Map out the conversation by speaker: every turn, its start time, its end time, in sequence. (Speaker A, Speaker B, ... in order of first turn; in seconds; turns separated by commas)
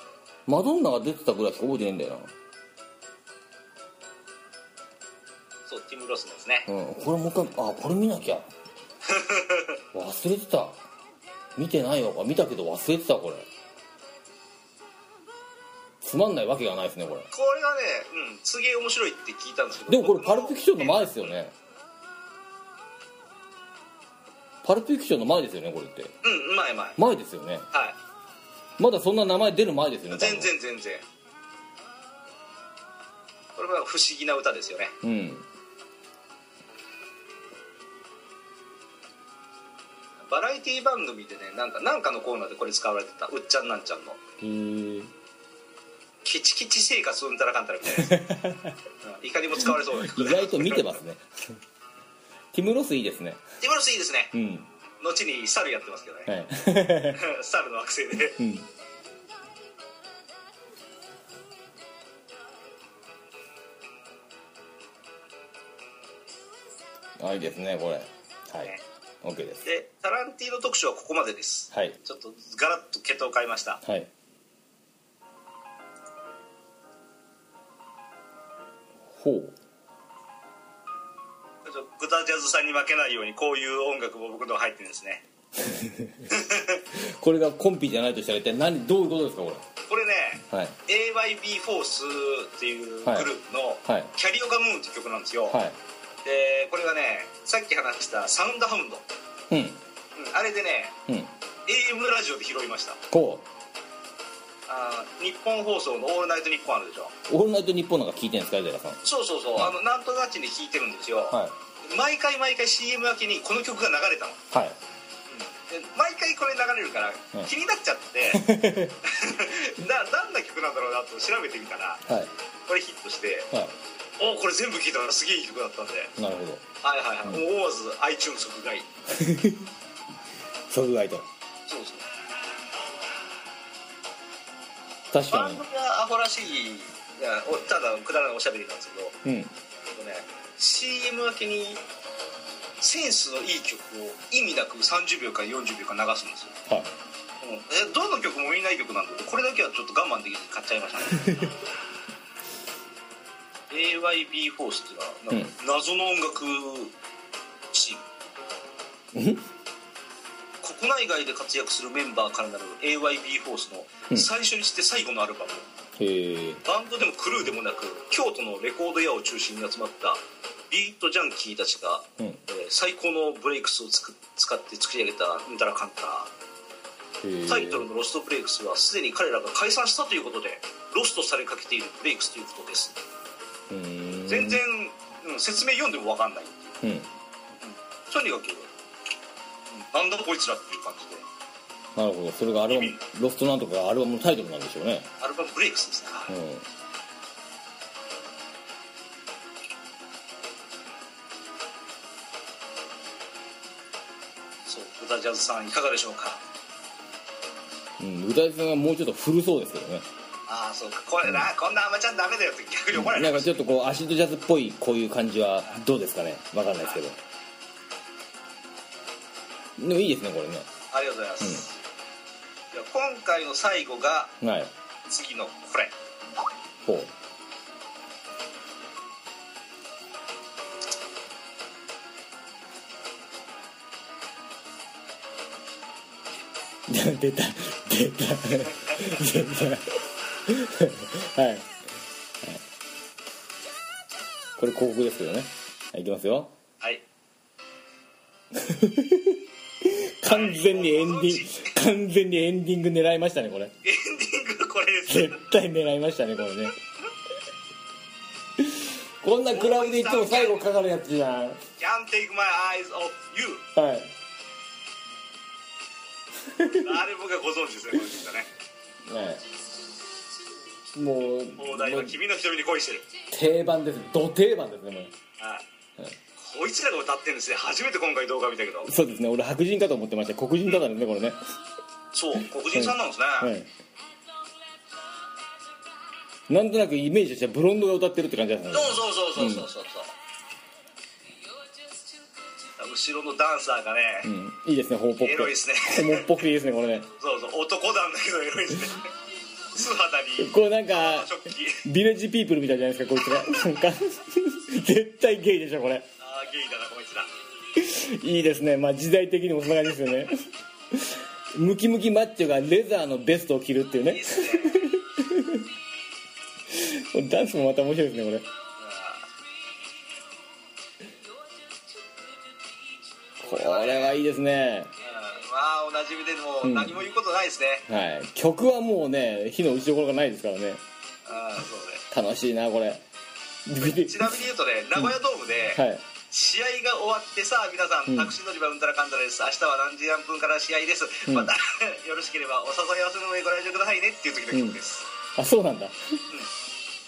Speaker A: 0.5-2.3, Speaker B: 5.7-6.7, Speaker A: 6.7-8.5, Speaker B: 9.1-9.8, Speaker A: 9.9-10.8, Speaker A: 11.6-13.5, Speaker A: 16.0-17.3, Speaker B: 17.3-21.3, Speaker A: 19.9-21.5, Speaker A: 24.6-26.1, Speaker B: 26.2-27.0, Speaker A: 27.0-27.7, Speaker B: 27.7-28.0, Speaker A: 28.8-30.5, Speaker B: 30.1-31.0, Speaker B: 33.5-34.9, Speaker A: 35.0-35.5, Speaker B: 40.3-44.2, Speaker A: 44.4-45.1, Speaker B: 46.2-48.1, Speaker A: 48.0-48.8, Speaker B: 49.0-50.9, Speaker A: 49.6-51.6, Speaker A: 52.5-53.4, Speaker B: 53.6-54.3, Speaker A: 54.3-54.7, Speaker B: 55.0-56.3, Speaker A: 56.3-57.2, Speaker B: 57.1-58.4, Speaker A: 58.4-58.7, Speaker A: 67.2-68.7, Speaker A: 69.2-69.6, Speaker B: 69.6-73.8, Speaker A: 71.7-72.0, Speaker A: 73.8-74.1, Speaker A: 79.1-79.5, Speaker B: 81.6-85.2, Speaker A: 85.6-86.2, Speaker B: 86.3-86.8, Speaker A: 86.9-89.7, Speaker B: 89.9-95.6, Speaker A: 90.4-90.8, Speaker A: 93.0-93.3, Speaker A: 93.8-94.1, Speaker A: 95.5-95.8, Speaker B: 96.2-99.0, Speaker A: 99.5-99.8, Speaker B: 100.2-101.0, Speaker A: 101.1-101.3, Speaker B: 101.7-103.0, Speaker A: 103.1-103.5, Speaker B: 104.7-107.1, Speaker A: 107.3-109.0, Speaker B: 109.0-114.4, Speaker A: 114.5-114.8, Speaker B: 115.3-118.5, Speaker A: 118.2-119.0, Speaker B: 119.0-122.0, Speaker A: 122.0-122.3, Speaker B: 122.7-123.5, Speaker B: 124.2-126.1, Speaker A: 126.2-126.6, Speaker B: 126.8-128.9, Speaker A: 129.1-129.7, Speaker A: 130.7-131.3, Speaker B: 131.7-132.0, Speaker A: 135.1-135.6, Speaker B: 135.3-139.2, Speaker A: 139.2-139.5, Speaker B: 139.9-141.8, Speaker B: 142.8-146.5, Speaker A: 146.7-146.9, Speaker B: 147.4-151.4, Speaker B: 153.7-156.9, Speaker B: 157.7-158.0, Speaker A: 159.1-159.4, Speaker B: 160.6-165.7, Speaker A: 166.0-166.6, Speaker B: 166.6-176.3, Speaker A: 177.2-177.8, Speaker B: 177.5-183.0, Speaker A: 183.7-184.6, Speaker B: 184.3-186.7, Speaker A: 186.8-187.1, Speaker B: 187.6-188.7, Speaker B: 189.7-191.2, Speaker A: 191.9-195.1, Speaker B: 192.7-193.0, Speaker B: 195.2-196.3, Speaker A: 196.3-196.7, Speaker B: 204.7-206.4, Speaker A: 208.0-210.1, Speaker B: 210.5-213.6, Speaker A: 212.9-217.2, Speaker A: 219.8-220.7, Speaker B: 220.9-221.8, Speaker B: 222.7-224.3, Speaker A: 224.4-224.7, Speaker B: 225.1-225.9, Speaker A: 226.8-227.1, Speaker A: 236.9-241.7, Speaker A: 244.6-246.5, Speaker A: 248.5-253.7, Speaker B: 250.2-251.8, Speaker B: 253.8-255.4, Speaker A: 255.1-256.7, Speaker A: 258.6-261.6, Speaker B: 259.5-260.6, Speaker B: 261.8-263.6, Speaker A: 263.8-264.1, Speaker A: 266.4-266.8, Speaker B: 266.8-268.5, Speaker A: 269.0-269.4, Speaker A: 270.9-272.2, Speaker B: 271.6-273.1, Speaker A: 273.3-275.1, Speaker B: 275.4-275.6, Speaker B: 276.4-278.9, Speaker A: 278.8-281.4, Speaker B: 282.1-283.5, Speaker A: 282.7-283.7, Speaker A: 286.5-289.7, Speaker B: 288.7-290.1, Speaker B: 292.8-294.3, Speaker A: 294.2-297.1, Speaker B: 295.2-296.3, Speaker B: 297.2-299.1, Speaker B: 299.7-301.9, Speaker A: 300.4-306.1, Speaker B: 306.2-307.3, Speaker A: 307.8-310.4, Speaker A: 310.9-315.7, Speaker B: 314.1-314.9, Speaker A: 316.7-318.5, Speaker B: 318.8-319.3, Speaker B: 323.4-324.2, Speaker A: 323.4-324.9, Speaker B: 325.0-327.8, Speaker A: 326.6-327.0, Speaker A: 327.9-330.8, Speaker B: 331.2-332.0, Speaker A: 332.1-333.0, Speaker A: 333.6-334.4, Speaker B: 333.8-345.1, Speaker A: 335.7-336.0, Speaker A: 338.1-338.3, Speaker A: 341.2-341.5, Speaker A: 344.5-344.8, Speaker A: 345.4-345.9